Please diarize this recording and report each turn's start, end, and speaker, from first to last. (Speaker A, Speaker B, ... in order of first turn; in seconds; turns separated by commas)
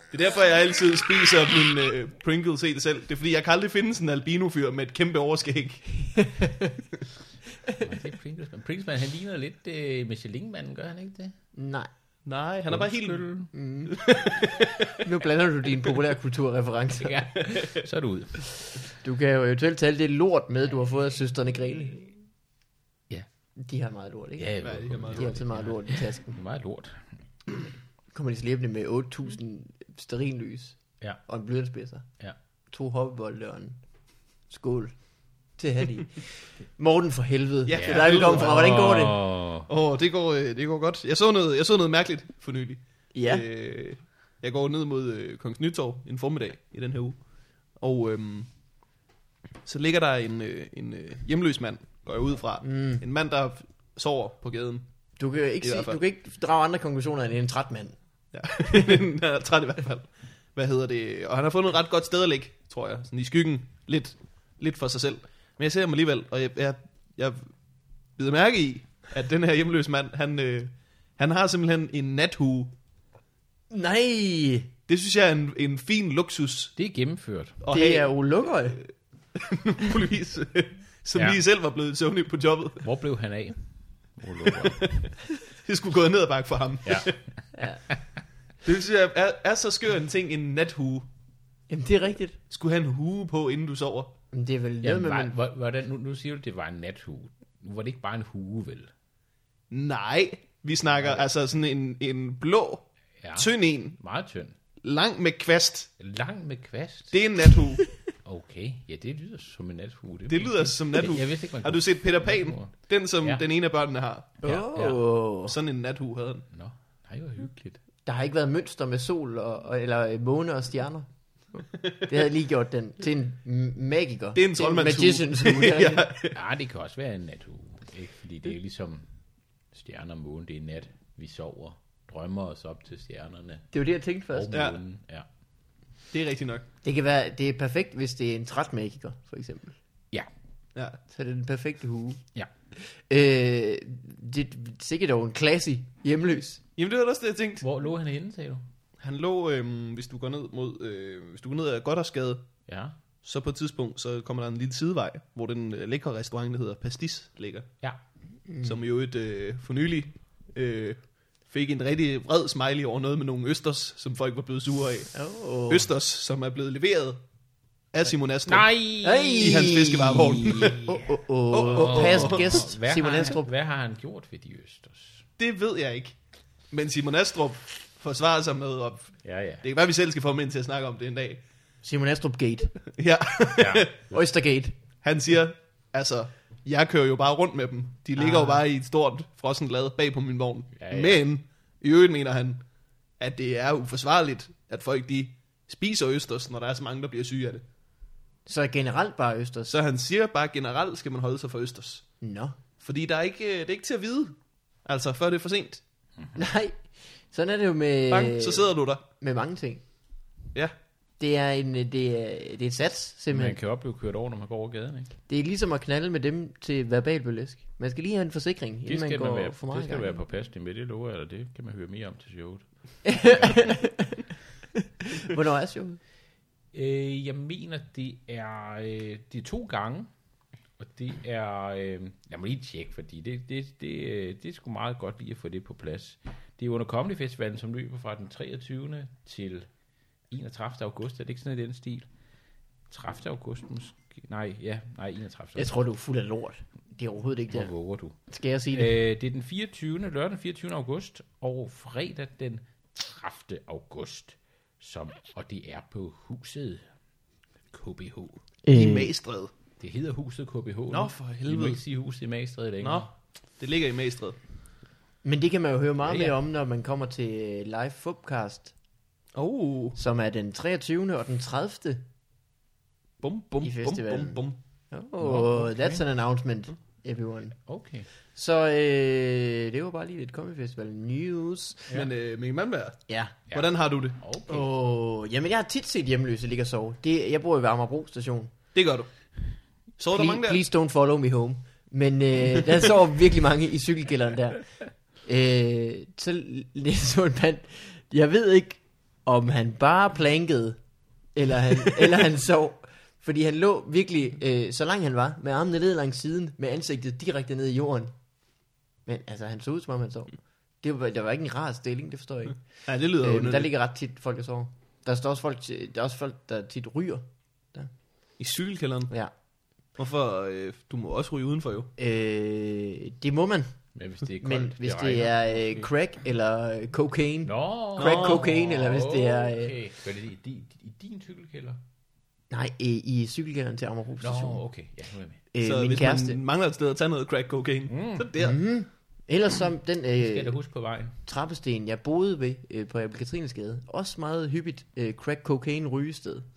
Speaker A: 0.1-6.2, Speaker B: 6.1-6.8, Speaker C: 7.8-11.3, Speaker B: 11.5-11.9, Speaker A: 12.2-13.3, Speaker C: 12.7-13.5, Speaker B: 13.5-14.2, Speaker A: 13.9-14.7, Speaker B: 15.0-17.7, Speaker C: 17.0-18.6, Speaker B: 19.0-22.1, Speaker B: 23.6-24.6, Speaker C: 24.4-27.1, Speaker A: 24.6-25.3, Speaker B: 25.1-26.4, Speaker B: 28.1-32.1, Speaker B: 32.7-33.8, Speaker B: 34.5-34.9, Speaker B: 35.6-39.2, Speaker A: 37.7-39.0, Speaker C: 37.7-39.7, Speaker A: 39.6-47.2, Speaker B: 43.1-43.4, Speaker A: 47.8-48.5, Speaker A: 49.6-54.8, Speaker B: 52.6-53.0, Speaker B: 55.2-58.0, Speaker A: 55.6-56.0, Speaker A: 58.3-67.5, Speaker A: 68.2-72.7, Speaker B: 73.7-74.7, Speaker A: 74.9-76.7, Speaker C: 76.8-77.6, Speaker A: 77.6-82.8, Speaker B: 77.7-78.8, Speaker C: 82.8-84.9, Speaker A: 84.4-85.1, Speaker A: 85.6-87.2, Speaker C: 86.8-88.2, Speaker B: 87.5-87.8, Speaker A: 88.6-91.1, Speaker B: 91.7-92.4, Speaker A: 92.5-94.1, Speaker B: 94.3-95.3, Speaker C: 94.8-98.9, Speaker A: 99.7-104.0, Speaker C: 100.9-101.2, Speaker C: 103.2-104.5, Speaker A: 104.8-105.9, Speaker C: 106.0-107.1, Speaker A: 107.1-107.8, Speaker C: 108.2-113.4, Speaker A: 110.3-114.4, Speaker B: 114.4-115.5, Speaker C: 114.4-115.0, Speaker A: 115.5-116.5, Speaker C: 116.5-117.8, Speaker B: 118.0-126.1, Speaker A: 124.3-126.4, Speaker C: 126.3-129.1, Speaker C: 129.7-133.7, Speaker B: 133.7-134.6, Speaker C: 134.3-135.2, Speaker A: 134.5-134.8, Speaker A: 136.1-136.6, Speaker B: 136.8-139.8, Speaker B: 141.1-142.2, Speaker B: 142.7-146.6, Speaker A: 146.8-147.7, Speaker C: 147.6-148.6, Speaker A: 149.0-152.4, Speaker C: 152.7-152.9, Speaker A: 153.2-157.7, Speaker B: 158.5-158.8, Speaker A: 158.6-165.2, Speaker B: 165.1-165.9, Speaker A: 165.7-167.2, Speaker A: 167.9-168.7, Speaker C: 168.5-175.2, Speaker B: 169.0-173.5, Speaker A: 169.4-170.8, Speaker A: 171.5-172.6, Speaker A: 175.4-176.2, Speaker A: 176.7-181.4, Speaker C: 179.2-179.6, Speaker B: 181.8-182.8, Speaker A: 182.9-183.9, Speaker C: 183.6-184.2, Speaker B: 184.1-184.7, Speaker A: 185.0-192.6, Speaker B: 188.2-188.6, Speaker C: 190.8-191.2, Speaker A: 193.2-197.6, Speaker B: 198.4-199.7, Speaker A: 199.7-202.1, Speaker B: 202.2-202.6, Speaker A: 202.8-205.8, Speaker B: 206.3-209.8, Speaker A: 208.1-209.0, Speaker B: 211.2-213.6, Speaker C: 213.3-215.1, Speaker B: 215.3-220.2, Speaker C: 218.8-223.8, Speaker B: 223.0-224.2, Speaker B: 224.8-226.0, Speaker C: 226.7-230.1, Speaker C: 230.8-239.7, Speaker C: 240.3-242.1, Speaker C: 242.9-245.7, Speaker B: 245.6-247.7, Speaker C: 247.5-248.2, Speaker B: 248.3-248.9, Speaker C: 248.7-256.8, Speaker C: 257.7-258.4, Speaker B: 258.6-259.1, Speaker A: 258.7-259.5, Speaker C: 259.8-263.1, Speaker A: 260.9-261.8, Speaker A: 262.8-264.4, Speaker B: 265.2-268.7, Speaker C: 266.0-266.3, Speaker A: 269.3-270.0, Speaker B: 269.9-272.0, Speaker A: 273.2-274.6, Speaker B: 273.6-277.6, Speaker C: 275.2-276.0, Speaker C: 277.6-278.1, Speaker B: 278.3-281.9, Speaker A: 281.9-284.2, Speaker B: 283.1-283.3, Speaker C: 284.2-284.7, Speaker B: 284.5-288.5, Speaker A: 288.7-289.1, Speaker A: 290.0-290.6, Speaker B: 290.1-294.7, Speaker B: 295.2-300.8, Speaker B: 301.3-308.1, Speaker B: 309.1-312.6, Speaker A: 312.9-313.7, Speaker B: 313.2-317.9, Speaker A: 318.4-319.1, Speaker A: 320.0-321.9, Speaker B: 322.0-323.7, Speaker C: 323.9-325.9, Speaker B: 324.4-329.8, Speaker C: 327.4-331.8, Speaker A: 328.0-328.5, Speaker B: 332.5-334.6, Speaker C: 334.2-335.4, Speaker B: 335.5-336.4, Speaker A: 335.6-338.6, Speaker C: 337.9-338.3, Speaker B: 338.4-340.5, Speaker C: 340.2-341.1, Speaker B: 341.2-346.5